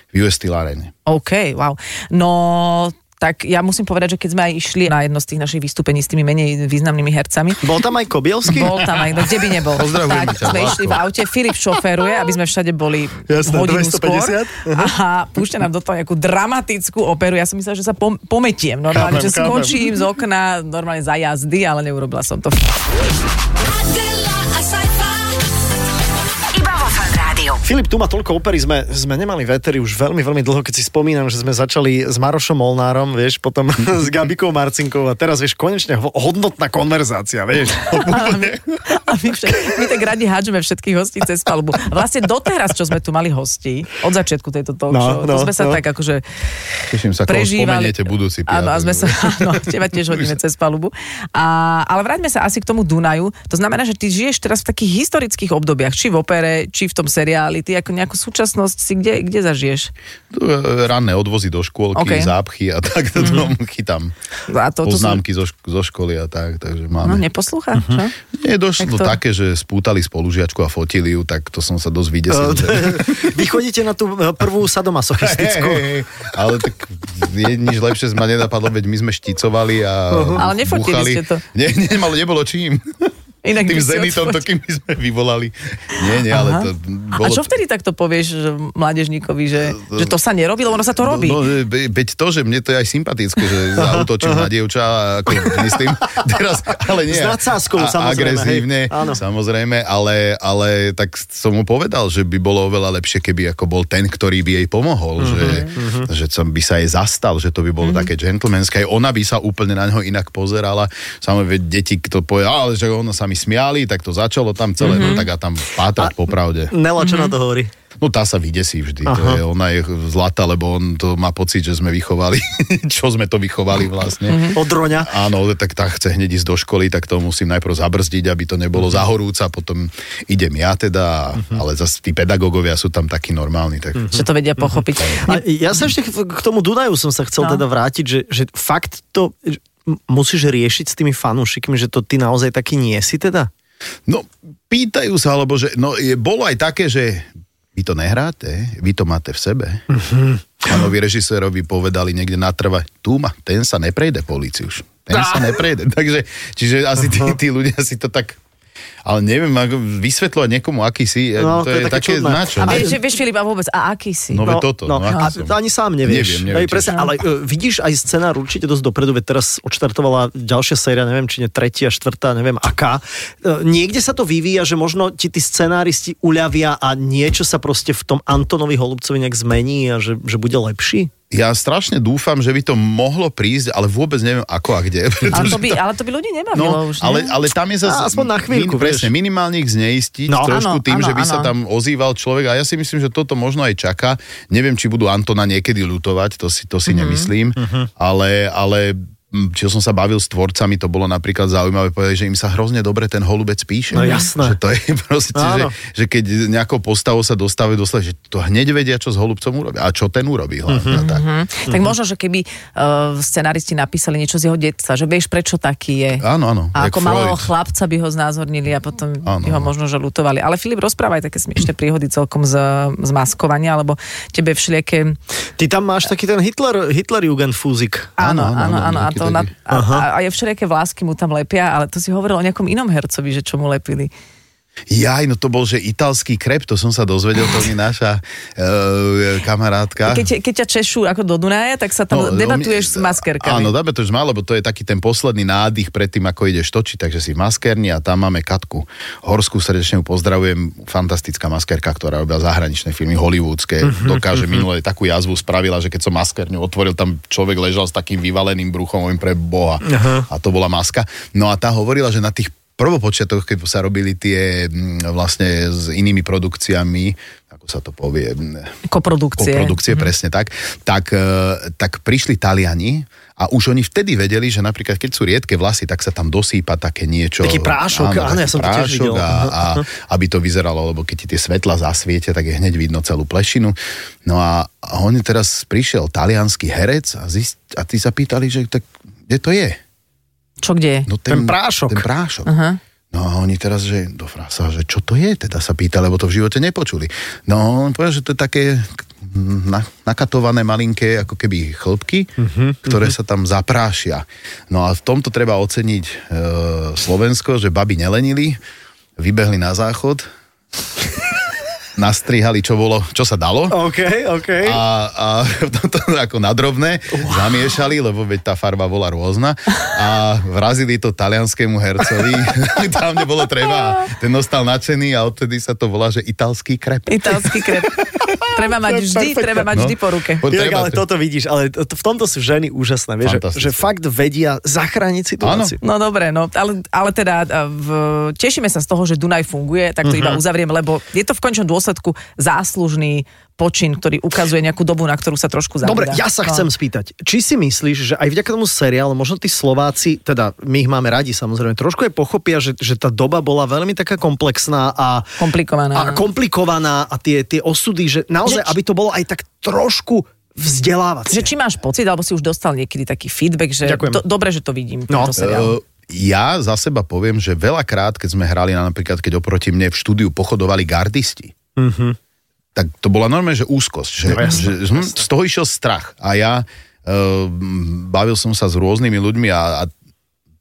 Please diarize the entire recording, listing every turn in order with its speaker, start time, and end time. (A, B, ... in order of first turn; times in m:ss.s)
0:00.1-0:00.9 A
0:01.1-0:07.7 B
0:07.6-0:08.9 C
0:08.5-0:22.8 B
0:09.7-0:11.0 A
0:13.3-0:14.9 C
0:18.9-0:20.0 C
0:23.6-0:25.4 D
0:26.5-0:27.6 D
0:27.6-0:38.6 C
0:37.9-0:46.2 B
0:44.9-0:45.8 C
0:46.9-0:50.3 A
0:47.3-0:59.9 B
1:00.3-1:04.1 A
1:01.9-1:02.3 B
1:03.2-1:03.5 B
1:04.5-1:05.2 B
1:04.8-1:07.2 A
1:07.0-1:08.1 B
1:08.3-1:13.4 A
1:08.8-1:09.2 B
1:12.3-1:15.9 C
1:15.2-1:27.5 A
1:20.1-1:20.4 C
1:20.4-1:21.4 B
1:23.4-1:24.4 B
1:26.1-1:31.4 B
1:29.6-1:30.1 A
1:30.9-1:56.7 A
1:33.8-1:34.5 C
1:35.4-1:35.8 C
1:37.1-1:39.2 C
1:45.2-1:46.1 C
1:47.8-1:48.1 B
1:54.8-1:55.2 C
1:54.8-1:55.3 B
1:56.7-1:57.7 C
1:57.0-1:57.3 B
1:58.0-2:14.2 A
1:59.1-1:59.4 C
2:04.3-2:04.6 B
2:04.5-2:05.1 C
2:14.0-2:23.5 C
2:14.1-2:15.4 B
2:24.1-2:29.8 A
2:29.9-2:30.4 C
2:30.6-2:38.4 A
2:35.1-2:35.5 C
2:37.1-2:37.4 C
2:39.0-2:42.9 A
2:41.4-2:43.0 C
2:42.6-2:45.4 B
2:44.3-2:46.9 A
2:44.4-3:01.1 C
2:46.8-2:47.1 B
3:01.3-3:05.8 A
3:05.3-3:07.4 B
3:06.5-3:31.2 A
3:07.8-3:09.1 C
3:10.3-3:10.6 C
3:10.4-3:11.5 B
3:16.9-3:17.3 B
3:17.6-3:17.9 C
3:23.9-3:24.6 C
3:23.9-3:24.3 B
3:25.4-3:25.7 C
3:30.7-3:31.0 C
3:30.9-3:36.2 B
3:36.2-3:37.5 A
3:36.8-3:45.2 B
3:39.2-3:39.7 A
3:45.6-3:48.2 C
3:48.2-3:54.1 B
3:48.2-3:49.5 A
3:49.7-3:50.0 C
3:54.9-4:00.3 A
4:00.0-4:03.7 B
4:02.1-4:28.8 A
4:13.8-4:14.6 C
4:19.8-4:20.3 C
4:28.9-4:30.1 B
4:29.4-4:49.8 A
4:37.4-4:39.8 C
4:50.6-4:51.1 B
4:51.1-4:52.5 A
4:51.3-4:52.0 C
4:52.5-4:52.8 B
4:53.1-5:02.3 A
5:02.4-5:03.1 C
5:02.8-5:08.6 A
5:09.2-5:10.3 A
5:12.0-5:13.8 A
5:13.7-5:14.8 C
5:14.6-5:27.6 A
5:17.2-5:17.5 C
5:27.1-5:30.5 B
5:28.3-5:29.7 C
5:29.7-5:31.0 A
5:30.5-5:35.8 C
5:33.2-5:33.9 A
5:35.4-5:35.8 A
5:35.8-5:46.7 B
5:40.0-5:40.4 C
5:45.8-5:55.4 C
5:55.4-5:56.2 B
5:55.9-6:01.5 C
5:58.4-5:58.8 B
6:01.3-6:05.7 B
6:03.8-6:04.2 C
6:05.4-6:11.6 A
6:11.8-6:12.2 C
6:12.8-6:19.9 A
6:14.3-6:15.2 C